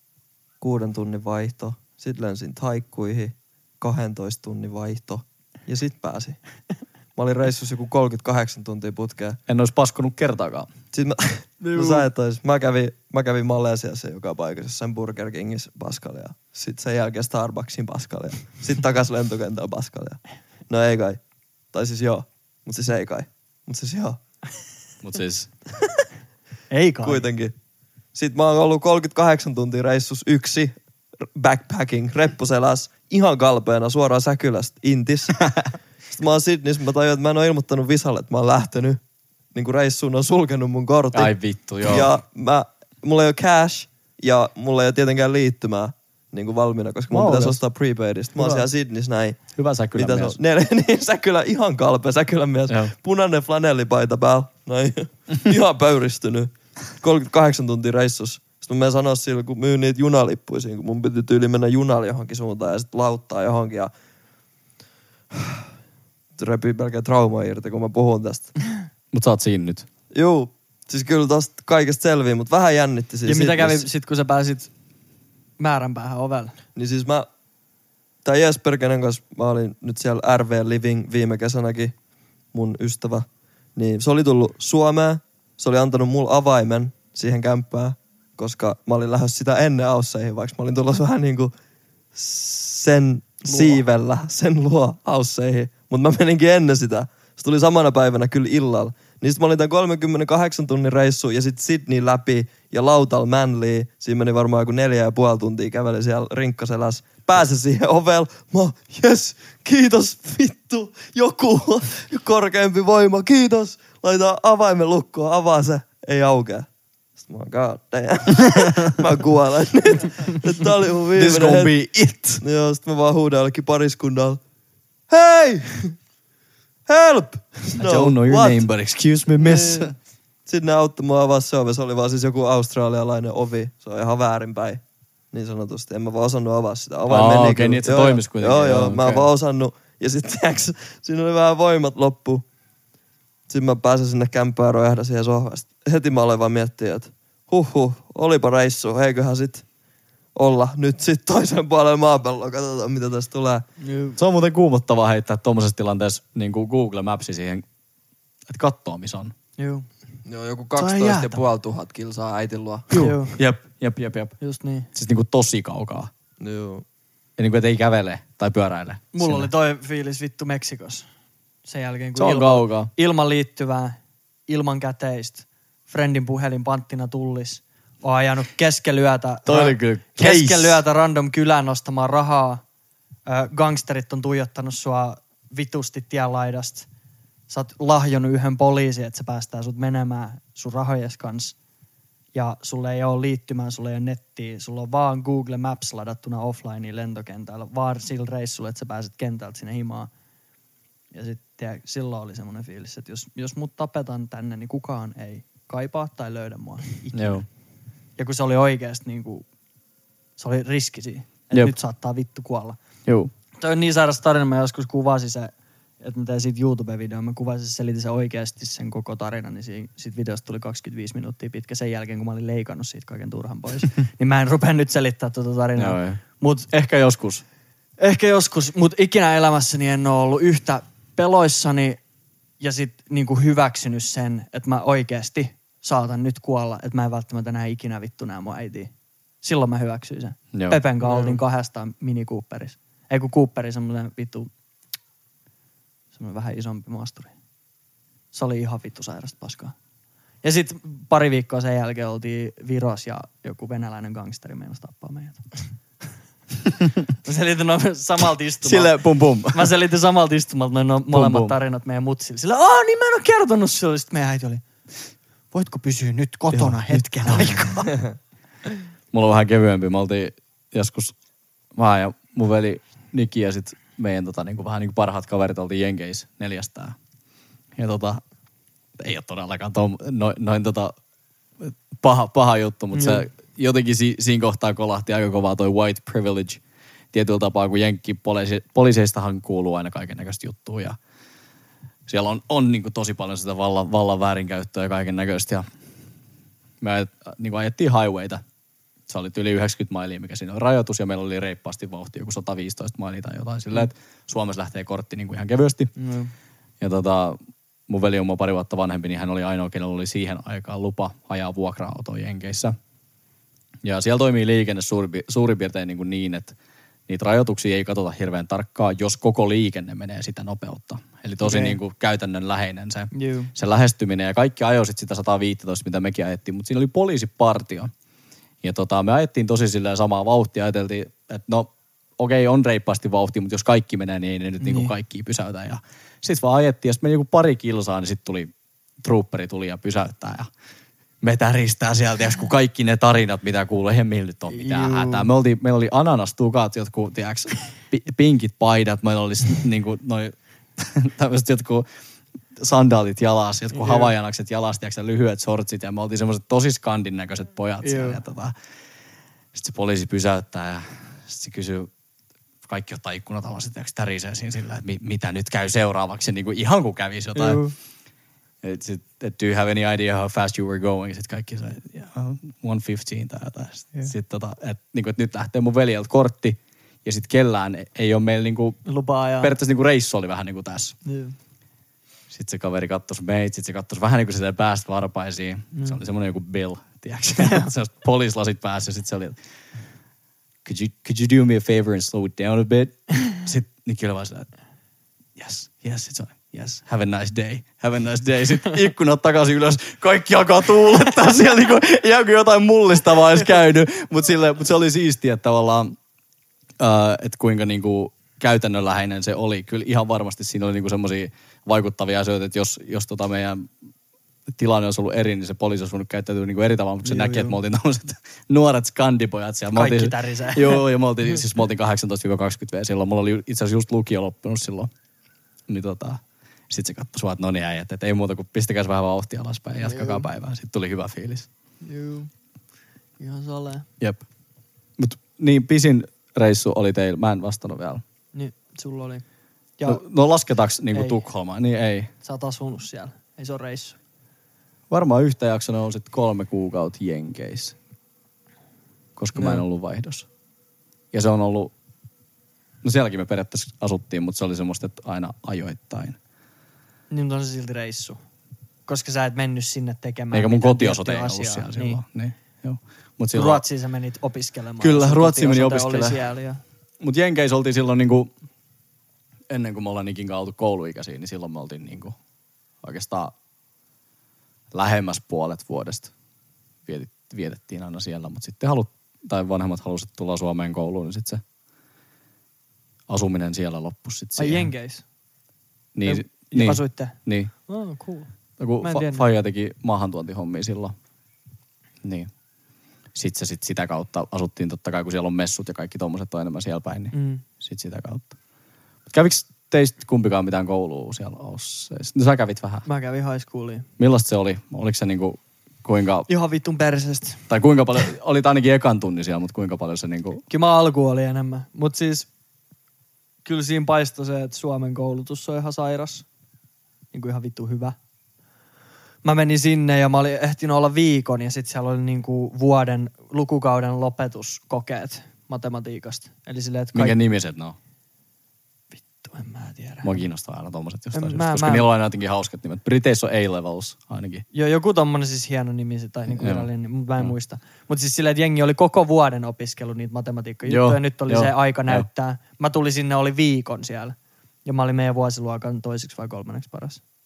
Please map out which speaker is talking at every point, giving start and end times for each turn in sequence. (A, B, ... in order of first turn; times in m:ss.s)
0:00.6-0:06.4 A
0:07.2-0:09.4 A
0:09.5-0:10.7 B
0:10.9-0:21.2 A
0:11.6-0:12.1 C
0:21.7-0:24.2 A
0:25.0-0:25.5 B
0:26.7-0:27.3 C
0:27.0-0:27.5 A
0:28.1-0:30.7 A
0:31.4-0:35.4 A
0:36.1-0:39.0 A
0:39.5-0:49.4 A
0:41.1-0:42.1 B
0:47.1-0:47.6 B
0:49.6-0:50.4 B
0:50.0-1:03.9 A
1:06.4-1:08.5 A
1:09.1-1:09.9 B
1:10.1-1:13.9 A
1:13.2-1:14.7 C
1:15.6-1:16.6 C
1:16.8-1:17.3 A
1:18.2-1:21.9 A
1:22.5-1:31.5 A
1:32.1-1:56.7 A
1:33.5-1:33.8 C
1:57.2-2:01.7 A
1:58.4-1:58.9 B
2:01.1-2:02.4 B
2:02.4-2:04.4 A
2:05.1-2:06.0 A
2:06.9-2:08.7 A
2:07.7-2:09.9 B
2:10.4-2:14.8 A
2:15.3-2:22.4 A
2:17.1-2:19.3 B
2:23.5-2:29.6 A
2:30.4-2:33.6 A
2:33.8-2:34.2 C
2:34.2-2:37.6 B
2:38.5-2:39.3 B
2:39.6-2:39.9 C
2:40.3-2:43.0 A
2:40.8-2:41.4 C
2:42.9-2:44.4 B
2:42.9-2:43.4 C
2:44.4-2:44.9 C
2:44.9-2:46.1 B
2:46.4-2:46.8 A
2:47.4-2:49.5 B
2:49.1-2:51.0 C
2:51.6-2:54.0 C
2:52.2-2:52.9 B
2:54.5-3:02.6 C
2:59.4-3:00.8 B
3:03.3-3:06.9 C
3:07.5-3:11.6 C
3:12.3-3:20.1 C
3:21.1-3:27.4 C
3:27.1-3:27.4 B
3:28.2-3:29.4 C
3:30.4-3:32.8 C
3:33.0-3:33.3 B
3:33.6-3:46.7 C
3:45.8-3:47.4 B
3:48.0-3:52.0 C
3:52.6-3:58.9 C
3:59.4-4:04.5 C
4:00.5-4:01.4 B
4:06.1-4:07.3 C
4:08.3-4:09.7 C
4:10.4-4:15.6 C
4:17.1-4:19.0 C
4:18.6-4:19.7 B
4:19.5-4:24.6 C
4:21.1-4:21.5 B
4:25.5-4:28.0 C
4:26.5-4:27.9 B
4:29.1-4:31.1 B
4:31.7-4:37.0 B
4:37.8-4:38.2 B
4:39.0-4:40.9 B
4:41.6-4:46.6 B
4:42.9-4:43.3 C
4:47.1-4:51.0 B
4:52.1-4:55.6 B
4:56.8-4:58.4 B
4:59.1-5:05.9 B
5:06.0-5:06.3 C
5:06.8-5:12.7 B
5:13.8-5:16.5 B
5:17.1-5:27.9 B
5:21.4-5:21.8 C
5:23.1-5:23.5 C
5:28.6-5:38.5 B
5:34.6-5:34.9 C
5:39.0-5:40.5 B
5:41.2-5:51.9 B
5:44.5-5:45.3 C
5:52.6-5:58.5 B
5:53.7-5:54.1 C
5:57.8-5:58.2 C
5:59.6-6:01.9 B
6:02.7-6:07.6 B
6:07.3-6:07.7 C
6:08.6-6:18.8 B
6:18.9-6:19.6 C
6:19.4-6:21.0 B
6:21.0-6:21.3 C
6:22.3-6:29.4 B
6:25.7-6:26.0 C
6:27.4-6:27.7 C
6:30.6-6:34.5 B
6:35.4-6:46.0 B
6:46.8-6:53.7 B
6:54.5-7:04.9 B
6:57.0-6:57.6 C
6:59.7-7:00.8 C
7:05.7-7:11.5 B
7:09.8-7:10.3 C
7:11.8-7:12.3 C
7:13.2-7:13.9 C
7:15.0-7:18.0 B
7:18.3-7:19.2 C
7:19.9-7:22.1 B
7:20.9-7:21.2 C
7:22.2-7:24.0 C
7:24.9-7:27.8 B
7:29.2-7:30.3 B
7:29.4-7:29.6 C
7:31.1-7:31.7 B
7:32.8-7:36.2 B
7:37.1-7:38.2 C
7:38.9-7:42.0 C
7:40.3-7:43.6 B
7:43.3-7:46.6 C
7:44.8-7:46.2 B
7:47.0-7:48.3 B
7:49.5-7:52.2 B
7:52.8-7:53.3 B
7:54.7-7:56.1 B
7:56.9-8:01.4 B
8:03.1-8:04.7 B
8:04.4-8:05.0 C
8:05.9-8:07.5 B
8:06.0-8:08.3 C
8:08.6-8:10.9 B
8:08.8-8:09.3 C
8:12.0-8:12.3 B
8:13.1-8:18.3 B
8:17.1-8:17.4 C
8:19.1-8:22.9 B
8:22.9-8:23.9 C
8:24.0-8:26.3 B
8:26.3-8:27.4 C
8:27.5-8:30.4 B
8:30.5-8:32.3 C
8:33.4-8:36.2 C
8:37.1-8:38.0 C
8:39.2-8:47.2 C
8:46.9-8:47.8 B
8:48.9-8:50.2 C
8:50.0-8:54.4 B
8:51.1-8:51.9 C
8:54.5-9:04.1 C
8:56.3-8:56.7 B
9:00.7-9:02.1 B
9:04.6-9:07.0 C